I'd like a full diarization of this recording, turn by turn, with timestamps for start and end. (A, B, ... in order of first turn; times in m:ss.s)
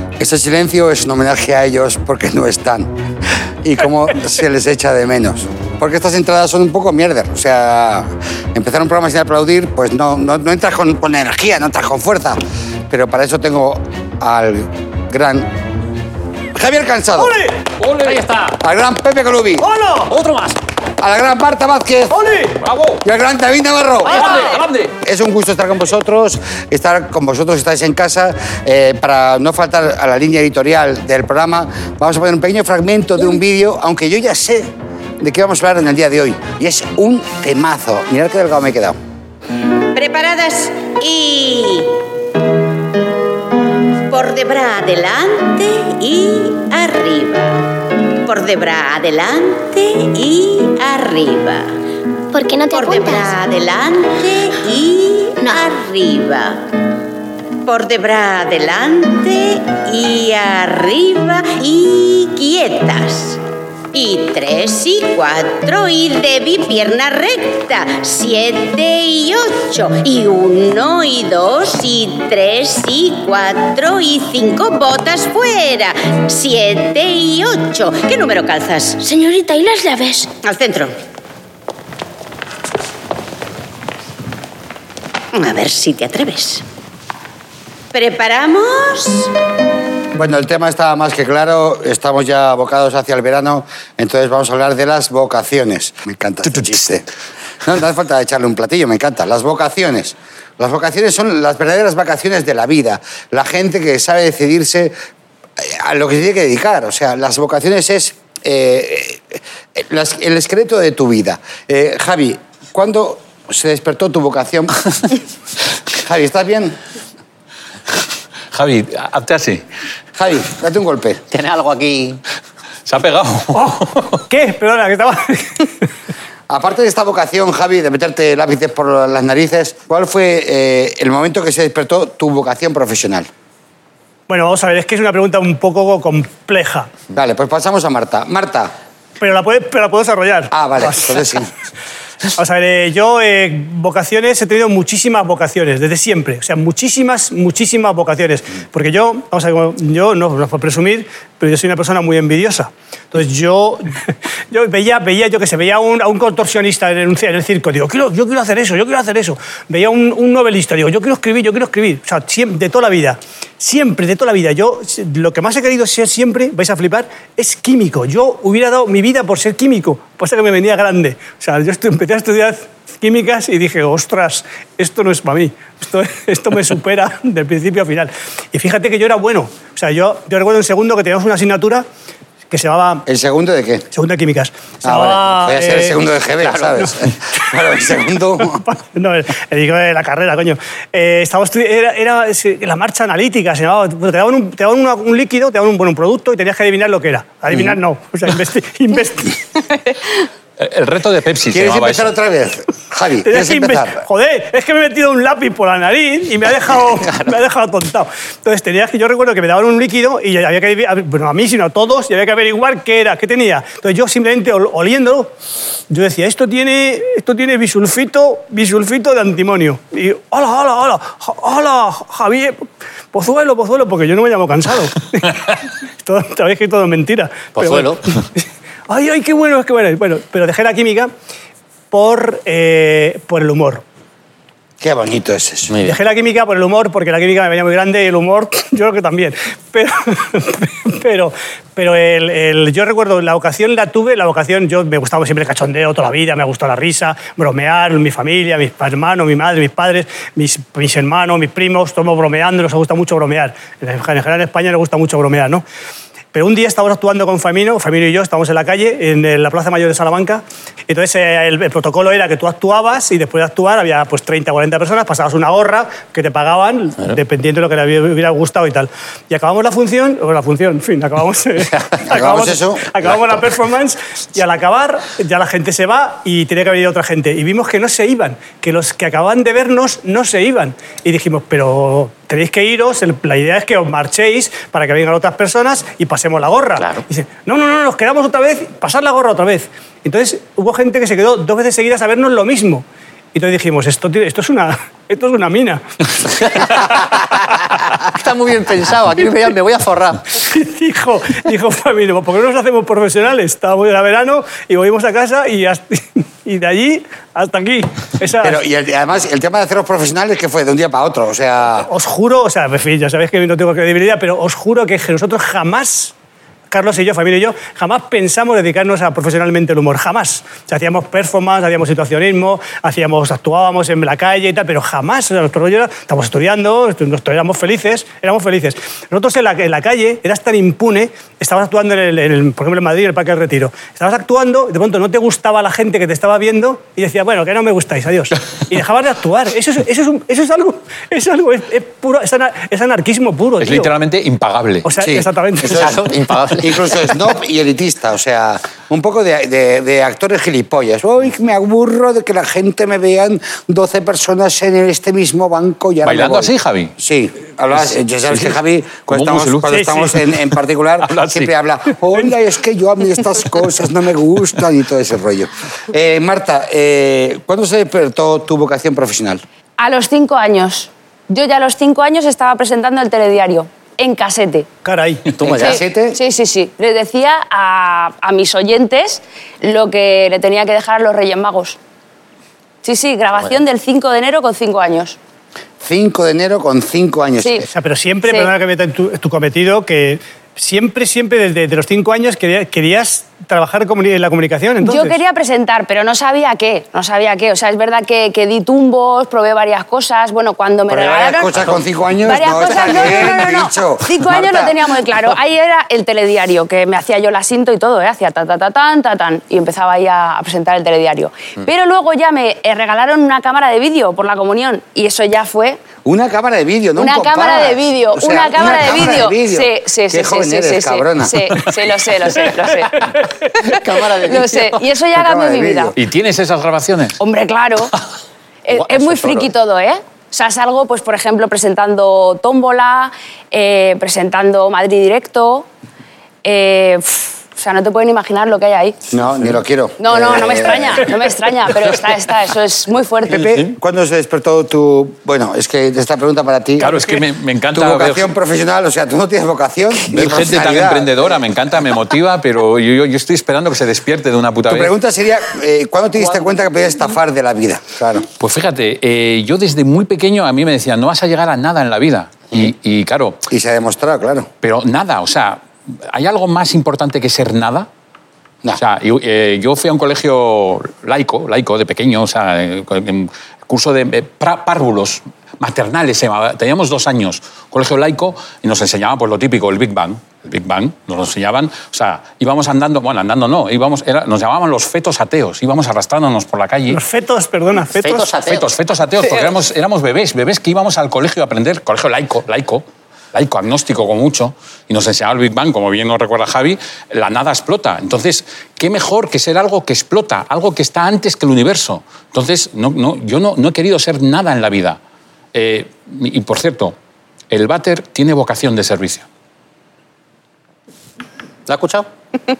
0:00.2-0:02.9 A
0:03.6-0:15.5 A
0:16.5-0:17.4 A
0:17.2-0:17.6 B
0:17.8-0:18.2 C
0:18.0-0:18.6 D
0:18.6-0:19.7 A
0:19.6-0:20.1 B
0:20.1-0:20.6 D
0:21.0-0:22.2 A
0:22.1-0:22.6 B
0:22.6-0:23.0 C
0:23.0-0:39.0 A
0:24.1-0:24.9 C
0:39.9-0:42.0 E
0:44.1-0:47.7 E
0:48.2-0:51.7 E
0:52.3-0:53.3 F
0:52.7-0:56.7 E
0:57.6-1:03.4 E
1:03.9-1:19.0 E
1:19.0-1:20.3 F
1:20.4-1:21.0 E
1:25.3-1:26.6 E
1:27.9-1:29.3 E
1:30.1-1:37.0 A
1:37.6-1:44.9 A
1:45.6-1:54.8 A
1:55.9-1:56.8 A
1:58.5-1:59.6 C
2:00.2-2:01.2 A
2:01.3-2:02.2 D
2:02.8-2:04.2 C
2:03.5-2:05.7 B
2:06.5-2:13.3 A
2:14.3-2:16.9 B
2:17.1-2:18.7 A
2:19.2-2:21.2 B
2:20.5-2:21.5 A
2:22.4-3:01.8 B
3:02.5-3:03.0 B
3:03.0-3:03.8 A
3:03.9-3:06.0 B
3:04.8-3:08.6 A
3:06.4-3:06.9 D
3:08.4-3:19.8 B
3:20.6-3:22.1 C
3:21.5-3:24.0 A
3:23.2-3:35.3 B
3:35.9-3:51.1 B
3:47.6-3:48.0 D
3:51.9-3:53.8 B
3:54.8-3:55.7 A
3:55.7-3:56.0 D
3:55.8-4:15.6 B
4:16.3-4:55.8 B
4:32.1-4:33.0 A
4:56.4-5:00.4 D
5:00.4-5:08.6 B
5:08.4-5:11.9 A
5:11.8-5:16.1 B
5:16.7-5:43.9 B
5:43.6-5:44.9 C
5:44.8-5:46.0 B
5:45.0-5:46.0 A
5:45.6-5:47.1 D
5:46.5-6:09.4 A
5:56.0-5:56.9 C
5:59.1-6:00.1 C
5:59.7-6:00.1 B
6:01.0-6:01.5 C
6:09.8-6:14.7 G
6:14.8-6:15.3 B
6:15.3-6:15.8 D
6:15.4-6:16.2 A
6:15.5-6:21.8 G
6:22.8-6:25.2 G
6:25.8-6:27.7 A
6:27.7-6:35.2 B
6:34.8-6:41.7 G
6:40.9-6:44.8 A
6:42.2-6:55.8 G
6:56.0-7:01.5 A
6:57.0-7:03.0 G
7:03.6-7:04.8 D
7:03.6-7:05.9 G
7:05.1-7:05.9 A
7:05.9-7:07.2 C
7:07.2-7:07.9 G
7:08.6-7:15.7 G
7:08.7-7:09.5 D
7:16.4-7:19.0 G
7:19.1-7:21.1 A
7:20.0-7:23.6 G
7:23.3-7:27.0 A
7:26.8-7:28.3 C
7:27.7-7:31.4 A
7:30.0-7:34.9 C
7:34.6-7:38.3 A
7:38.4-7:43.4 C
7:43.5-7:44.5 A
7:44.6-7:47.9 C
7:48.8-8:07.0 C
8:06.9-8:08.3 B
8:07.9-8:08.7 D
8:08.4-8:25.0 C
8:25.5-8:26.9 C
8:27.5-8:29.2 C
8:31.7-8:32.1 D